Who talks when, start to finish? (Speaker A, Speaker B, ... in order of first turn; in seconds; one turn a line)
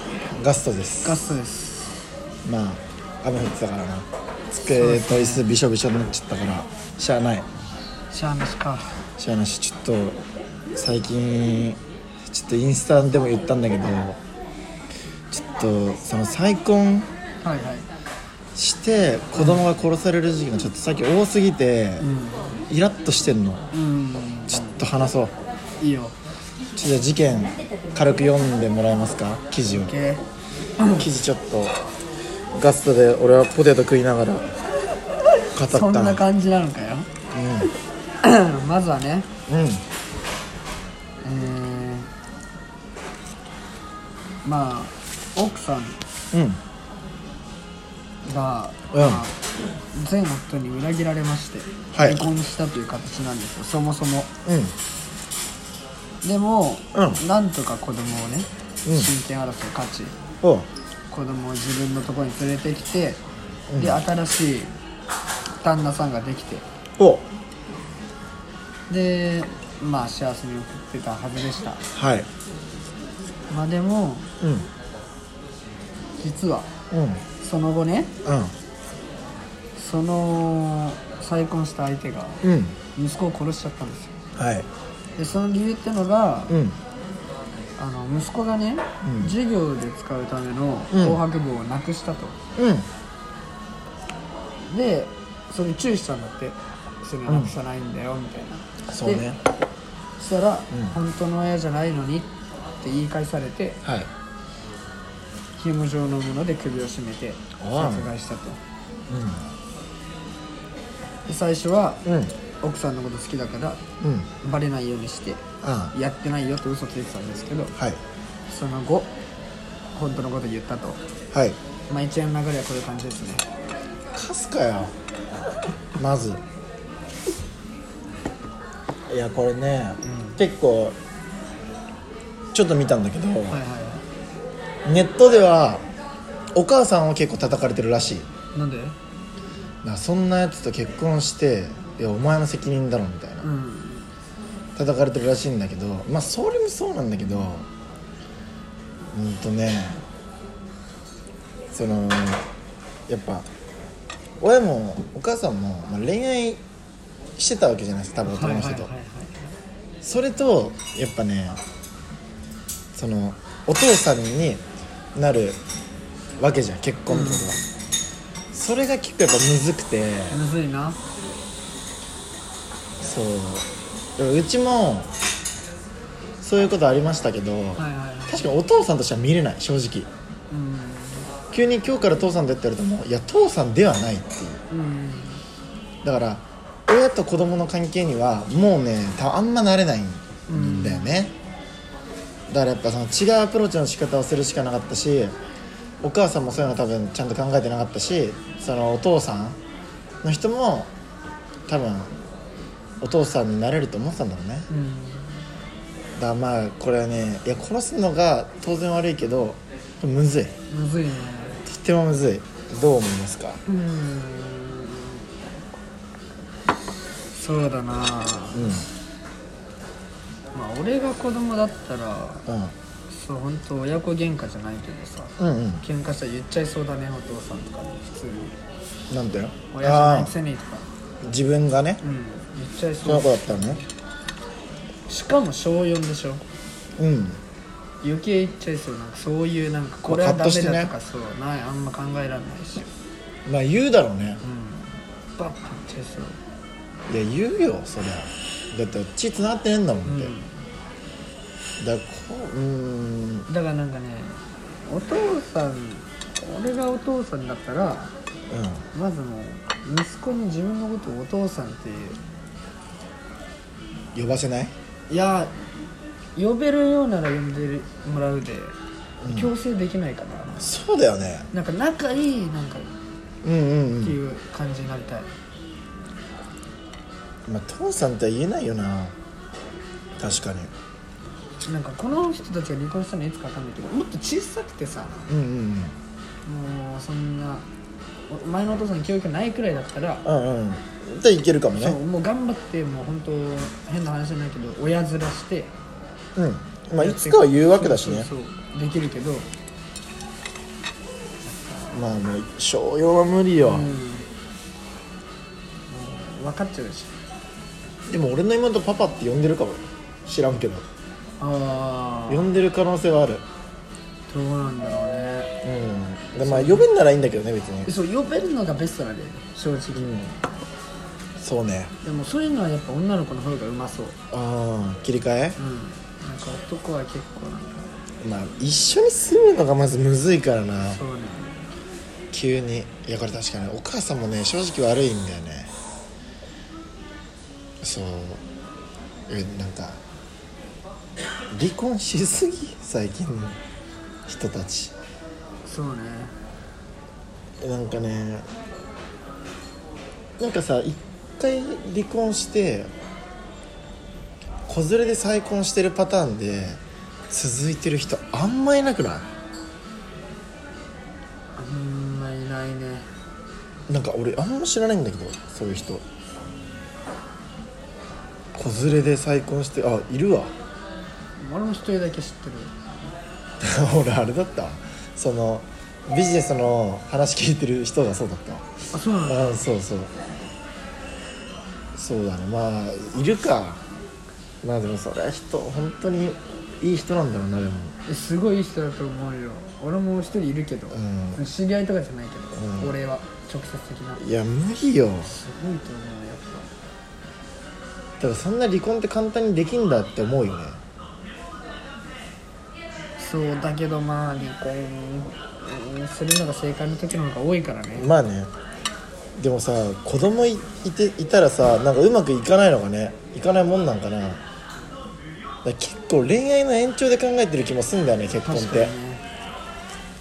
Speaker A: 0.3-1.2
Speaker B: 1.0-2.0
Speaker A: 2.4-7.5
Speaker B: 4.7-5.5
Speaker B: 8.1-9.0
Speaker A: 9.2-10.2
Speaker A: 10.7-14.2
Speaker A: 15.3-17.1
Speaker B: 17.4-17.9
Speaker A: 18.6-22.1
Speaker B: 19.4-19.6
Speaker B: 22.0-22.6
Speaker A: 22.7-23.7
Speaker B: 23.7-24.9
Speaker A: 24.5-25.3
Speaker B: 25.8-26.2
Speaker A: 26.8-29.9
Speaker B: 29.7-30.2
Speaker B: 30.8-31.1
Speaker A: 31.0-31.8
Speaker A: 32.5-34.5
Speaker A: 35.5-36.2
Speaker B: 35.6-37.1
Speaker A: 37.3-37.7
Speaker B: 38.2-39.3
Speaker A: 39.5-39.8
Speaker B: 41.2-42.1
Speaker B: 44.4-46.0
Speaker A: 46.3-46.6
Speaker B: 48.2-49.4
Speaker A: 48.9-49.2
Speaker B: 49.9-54.3
Speaker A: 51.9-52.2
Speaker A: 54.5-54.8
Speaker B: 56.2-60.2
Speaker A: 56.9-57.2
Speaker A: 58.9-59.1
Speaker A: 60.4-60.7
Speaker B: 61.1-63.2
Speaker A: 63.7-64.0
Speaker B: 63.8-64.8
Speaker B: 65.6-66.7
Speaker A: 67.0-67.3
Speaker B: 68.9-71.9
Speaker A: 72.0-72.3
Speaker B: 73.5-74.3
Speaker A: 74.4-74.7
Speaker B: 76.2-76.7
Speaker A: 76.9-77.2
Speaker B: 77.4-78.1
Speaker A: 78.2-78.5
Speaker B: 79.8-82.4
Speaker A: 82.4-82.8
Speaker B: 83.0-84.1
Speaker A: 84.4-84.7
Speaker B: 85.2-86.6
Speaker A: 86.5-86.8
Speaker B: 87.8-92.4
Speaker A: 89.0-89.3
Speaker A: 90.9-91.2
Speaker A: 92.6-92.9
Speaker B: 94.6-99.2
Speaker A: 97.3-97.5
Speaker A: 98.9-99.4
Speaker B: 100.2-103.8
Speaker A: 100.7-101.0
Speaker A: 103.8-104.1
Speaker B: 105.6-108.6
Speaker A: 107.6-108.1
Speaker A: 109.1-109.5
Speaker B: 111.2-112.0
Speaker A: 112.1-112.3
Speaker B: 112.6-113.8
Speaker A: 114.0-114.3
Speaker B: 114.4-117.8
Speaker A: 115.6-115.9
Speaker B: 118.5-119.1
Speaker B: 119.9-121.0
Speaker A: 121.3-121.6
Speaker B: 121.9-123.5
Speaker A: 124.1-124.9
Speaker A: 126.0-126.4
Speaker A: 129.1-131.0
Speaker B: 130.0-130.4
Speaker A: 132.5-133.6
Speaker B: 133.5-134.1
Speaker A: 134.8-135.8
Speaker A: 136.5-138.3
Speaker B: 138.5-139.0
Speaker A: 139.8-143.5
Speaker B: 143.4-144.1
Speaker A: 144.8-147.7
Speaker A: 149.1-150.0
Speaker A: 151.7-152.4
Speaker A: 153.1-153.5
Speaker A: 154.4-156.6
Speaker A: 157.4-158.9
Speaker B: 158.2-159.5
Speaker A: 160.0-161.6
Speaker A: 162.9-164.6
Speaker A: 165.2-165.6
Speaker A: 166.4-167.6
Speaker B: 167.1-167.6
Speaker A: 168.5-170.4
Speaker B: 170.3-171.0
Speaker A: 173.0-175.1
Speaker A: 176.4-180.1
Speaker B: 177.8-178.5
Speaker B: 180.5-181.3
Speaker A: 181.5-184.6
Speaker B: 184.7-185.4
Speaker A: 186.0-191.3
Speaker B: 190.5-191.3
Speaker A: 192.5-195.3
Speaker A: 196.0-199.6
Speaker A: 200.2-200.9
Speaker A: 201.7-202.1
Speaker A: 203.0-204.7
Speaker B: 204.7-205.5
Speaker A: 206.2-210.6
Speaker B: 210.7-211.6
Speaker A: 211.7-213.6
Speaker B: 213.7-215.3
Speaker B: 217.3-218.8
Speaker A: 218.5-218.9
Speaker B: 220.5-222.5
Speaker A: 222.5-222.7
Speaker B: 223.1-228.5
Speaker A: 225.4-225.8
Speaker A: 229.1-230.3
Speaker B: 229.7-230.9
Speaker A: 231.2-232.0
Speaker B: 232.0-233.9
Speaker A: 233.0-233.8
Speaker B: 235.1-236.5
Speaker A: 237.0-237.4
Speaker B: 238.0-242.9
Speaker A: 240.1-240.9
Speaker A: 243.5-244.4
Speaker B: 244.4-246.4
Speaker A: 247.1-250.3
Speaker B: 250.0-250.6
Speaker A: 251.8-253.5
Speaker B: 253.5-258.1
Speaker A: 258.5-258.9
Speaker B: 258.9-262.2
Speaker A: 264.1-264.7
Speaker B: 265.1-265.5
Speaker B: 266.4-268.8
Speaker A: 269.2-269.5
Speaker B: 269.3-270.7
Speaker A: 270.6-271.5
Speaker B: 271.5-272.9
Speaker A: 273.4-274.2
Speaker B: 274.0-275.3
Speaker A: 277.5-279.1
Speaker A: 280.2-280.7
Speaker B: 281.6-285.2
Speaker A: 285.3-285.9
Speaker B: 286.4-287.6
Speaker B: 288.3-290.2
Speaker A: 290.2-292.0
Speaker B: 291.7-295.7
Speaker A: 296.4-298.3
Speaker B: 297.0-299.5
Speaker B: 301.4-302.0
Speaker A: 301.9-303.9
Speaker B: 303.6-304.3
Speaker B: 305.9-307.2
Speaker A: 308.1-310.9
Speaker B: 311.4-312.5
Speaker A: 312.3-313.4
Speaker B: 314.3-315.5
Speaker A: 315.6-317.9
Speaker B: 316.4-316.9
Speaker B: 317.8-320.4
Speaker A: 319.9-320.3
Speaker A: 321.4-321.9
Speaker B: 322.0-324.2
Speaker A: 324.3-325.6
Speaker B: 325.6-328.0
Speaker A: 328.2-331.0
Speaker B: 330.9-331.6
Speaker A: 332.3-335.7
Speaker A: 337.8-338.4
Speaker A: 339.3-340.0
Speaker A: 341.5-343.6
Speaker A: 344.3-344.9
Speaker B: 345.6-346.3
Speaker A: 347.6-348.4
Speaker A: 350.4-352.9
Speaker A: 354.7-359.3
Speaker B: 361.6-363.1
Speaker A: 363.9-366.0
Speaker A: 368.5-370.5
Speaker B: 371.4-372.9
Speaker A: 373.6-378.7
Speaker B: 378.9-379.6
Speaker A: 379.2-380.1
Speaker A: 381.9-383.8
Speaker A: 384.6-387.9
Speaker B: 388.1-394.2
Speaker A: 390.9-391.4
Speaker A: 392.5-392.9
Speaker A: 394.2-395.3
Speaker B: 395.2-396.7
Speaker A: 398.2-400.8
Speaker B: 403.2-408.1
Speaker A: 407.9-408.5
Speaker A: 409.4-414.4
Speaker A: 415.6-418.9
Speaker B: 418.4-419.2